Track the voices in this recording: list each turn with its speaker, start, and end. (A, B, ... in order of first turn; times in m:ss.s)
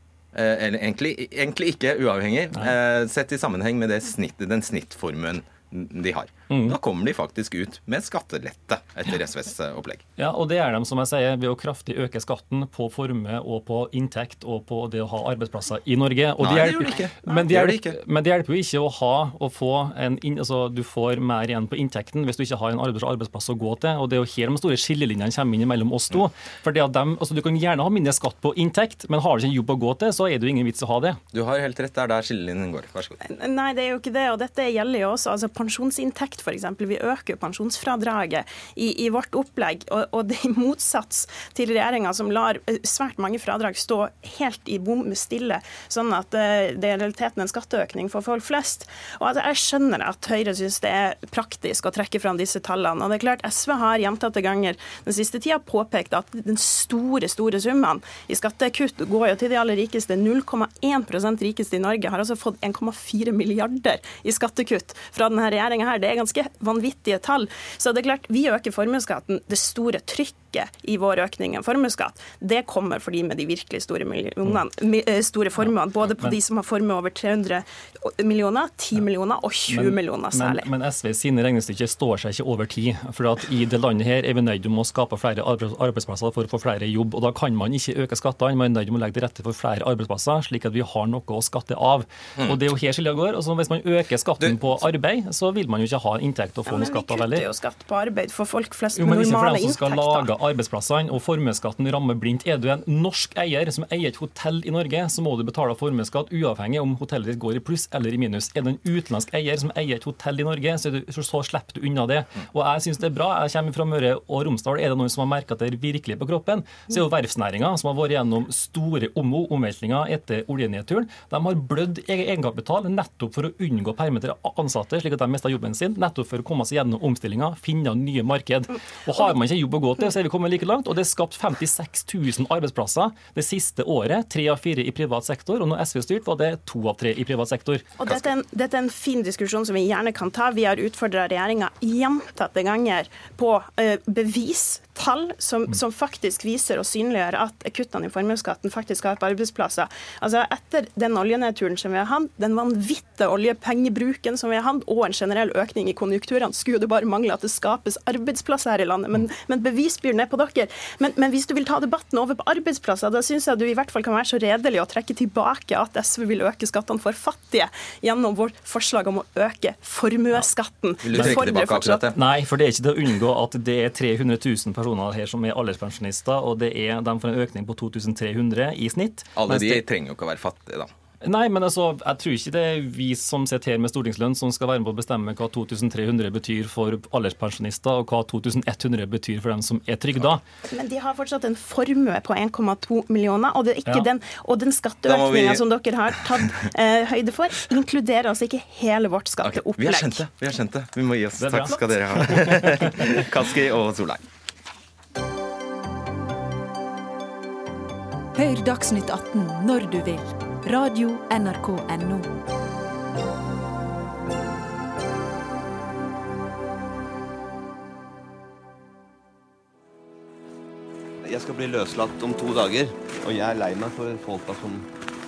0:00.3-0:10.0 A
0:06.5-0:06.8 B
0:10.2-0:31.2 B
0:16.4-0:18.0 A
0:31.3-0:33.2 A
0:33.2-1:20.7 C
1:15.6-1:16.4 B
1:19.7-1:37.4 B
1:34.4-1:34.8 A
1:36.6-1:40.3 C
1:38.9-2:17.9 B
2:18.0-2:52.1 C
2:51.0-2:52.2 A
2:51.1-2:51.5 B
2:52.1-2:59.8 B
2:59.4-3:00.9 A
3:01.2-3:10.4 B
3:10.7-3:20.2 C
3:15.0-3:15.6 A
3:19.4-3:24.2 A
3:21.4-3:23.1 B
3:28.3-3:32.3 D
3:41.2-3:44.9 E